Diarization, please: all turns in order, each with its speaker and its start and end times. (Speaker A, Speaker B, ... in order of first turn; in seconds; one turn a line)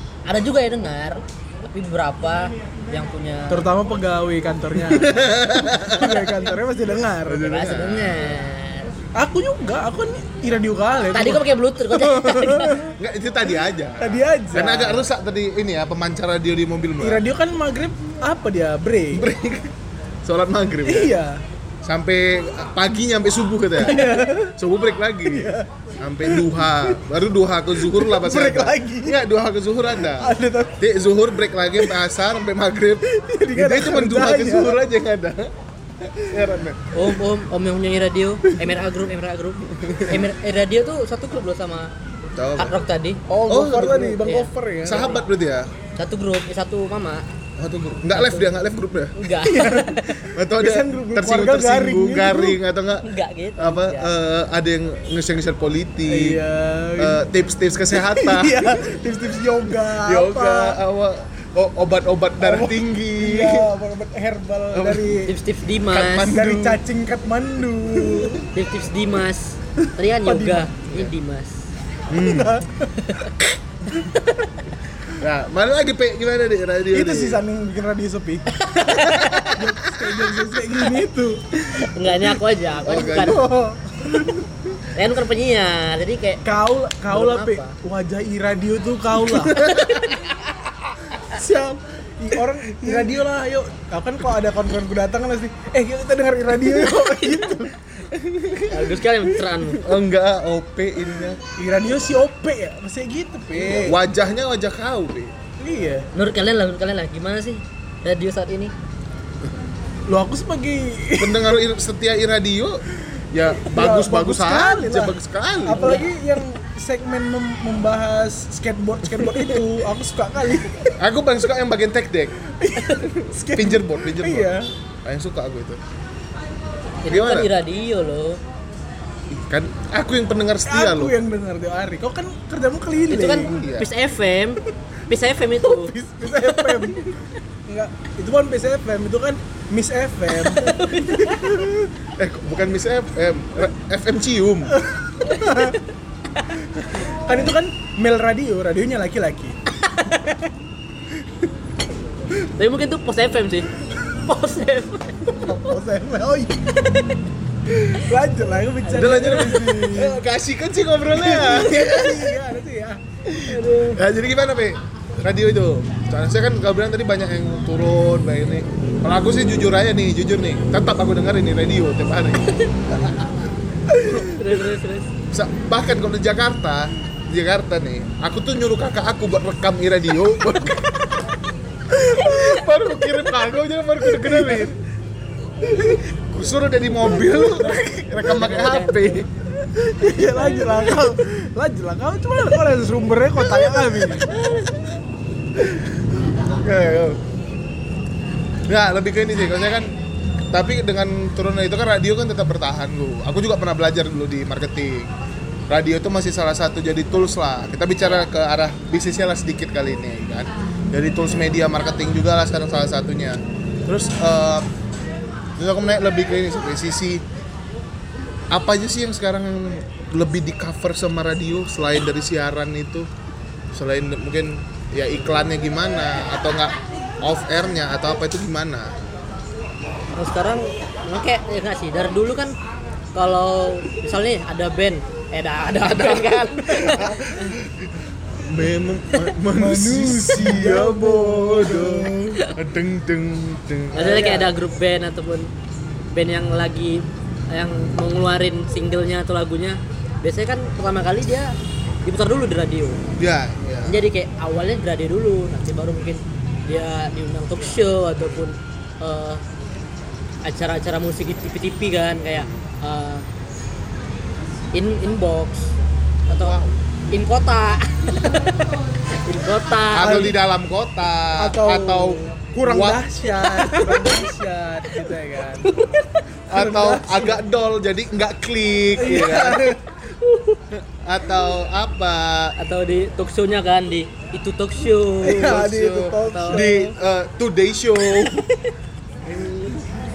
Speaker A: 0.2-3.7
Speaker B: 3.5-7.6
Speaker C: 4.8-6.5
Speaker C: 7.2-8.4
Speaker A: 7.5-8.9
Speaker B: 9.2-12.9
Speaker A: 11.1-12.8
Speaker C: 13.0-17.2
Speaker B: 14.0-15.1
Speaker B: 17.0-19.3
Speaker C: 19.1-19.7
Speaker C: 20.2-21.2
Speaker B: 20.9-21.4
Speaker C: 21.8-36.8
Speaker B: 23.8-24.6
Speaker B: 25.2-25.7
Speaker B: 26.2-26.9
Speaker B: 27.8-29.2
Speaker B: 30.2-30.8
Speaker B: 33.0-34.8
Speaker A: 36.9-41.9
Speaker C: 39.8-40.2
Speaker C: 42.4-42.8
Speaker A: 42.6-43.2
Speaker B: 43.3-45.1
Speaker C: 43.5-44.2
Speaker A: 44.1-45.2
Speaker C: 44.9-45.7
Speaker A: 46.0-47.2
Speaker C: 47.6-49.1
Speaker A: 48.1-48.5
Speaker A: 49.1-50.2
Speaker B: 49.4-52.6
Speaker C: 50.3-56.4
Speaker A: 53.0-54.1
Speaker B: 56.1-57.2
Speaker C: 57.0-58.8
Speaker B: 58.0-60.8
Speaker C: 59.8-63.7
Speaker B: 62.4-65.3
Speaker C: 64.7-65.2
Speaker A: 65.3-66.3
Speaker C: 65.9-66.8
Speaker B: 66.2-68.5
Speaker C: 68.0-68.4
Speaker A: 68.5-71.7
Speaker B: 70.2-70.9
Speaker C: 72.1-72.6
Speaker B: 72.2-73.0
Speaker A: 73.0-73.3
Speaker A: 74.0-74.3
Speaker C: 75.2-77.4
Speaker B: 76.9-78.6
Speaker A: 78.5-79.6
Speaker B: 79.5-82.3
Speaker A: 81.8-83.5
Speaker C: 82.8-83.5
Speaker B: 83.0-84.4
Speaker A: 85.0-86.4
Speaker B: 86.4-89.6
Speaker A: 87.1-87.7
Speaker C: 89.5-90.1
Speaker A: 89.5-90.2
Speaker B: 91.3-97.8
Speaker C: 92.8-93.2
Speaker C: 98.1-101.4
Speaker A: 98.7-99.8
Speaker B: 101.6-104.0
Speaker C: 103.6-105.3
Speaker B: 105.6-106.1
Speaker A: 106.1-108.7
Speaker B: 110.1-111.5
Speaker C: 111.2-116.0
Speaker B: 113.7-121.0
Speaker A: 115.7-116.1
Speaker C: 121.0-122.4
Speaker B: 122.6-124.7
Speaker C: 123.4-125.8
Speaker A: 127.0-128.4
Speaker C: 127.1-127.5
Speaker C: 129.3-131.2
Speaker B: 130.7-133.6
Speaker A: 133.1-137.1
Speaker C: 133.4-133.9
Speaker B: 135.7-137.1
Speaker B: 137.7-141.4
Speaker A: 140.4-141.5
Speaker C: 142.2-144.8
Speaker B: 144.7-145.8
Speaker A: 145.3-145.8
Speaker B: 147.1-149.6
Speaker A: 149.9-150.3
Speaker A: 152.4-155.7
Speaker B: 155.3-156.8
Speaker B: 157.8-160.2
Speaker C: 158.9-162.3
Speaker A: 158.9-159.6
Speaker B: 161.1-163.0
Speaker C: 163.3-173.3
Speaker A: 163.5-164.0
Speaker A: 174.0-175.1
Speaker C: 175.3-180.9
Speaker B: 181.9-182.4
Speaker C: 181.9-184.8
Speaker B: 184.1-184.7
Speaker C: 185.6-189.3
Speaker A: 188.3-189.3
Speaker B: 189.6-194.3
Speaker A: 190.6-190.9
Speaker C: 195.6-197.2
Speaker C: 198.7-205.1
Speaker C: 205.7-214.7
Speaker C: 215.6-217.2
Speaker C: 218.5-223.1
Speaker C: 223.7-228.9
Speaker A: 230.1-232.6
Speaker A: 233.1-237.6
Speaker C: 235.8-244.4
Speaker B: 239.5-242.4
Speaker A: 243.9-245.5
Speaker B: 244.0-244.5
Speaker A: 246.1-253.0
Speaker C: 253.2-254.0
Speaker A: 253.9-259.4
Speaker A: 260.4-263.2
Speaker A: 264.7-265.7
Speaker A: 266.3-266.6
Speaker C: 266.3-266.8
Speaker A: 267.1-270.3
Speaker C: 269.9-273.1
Speaker B: 270.0-270.3
Speaker B: 271.4-275.7
Speaker A: 273.6-274.3
Speaker A: 275.6-276.2
Speaker C: 276.5-279.8
Speaker B: 276.5-277.4
Speaker B: 279.0-279.8
Speaker A: 280.2-280.6
Speaker C: 280.7-282.6
Speaker A: 282.6-285.6
Speaker B: 285.2-286.9
Speaker C: 285.3-288.4
Speaker A: 286.2-286.8
Speaker A: 288.0-288.7
Speaker C: 289.3-289.8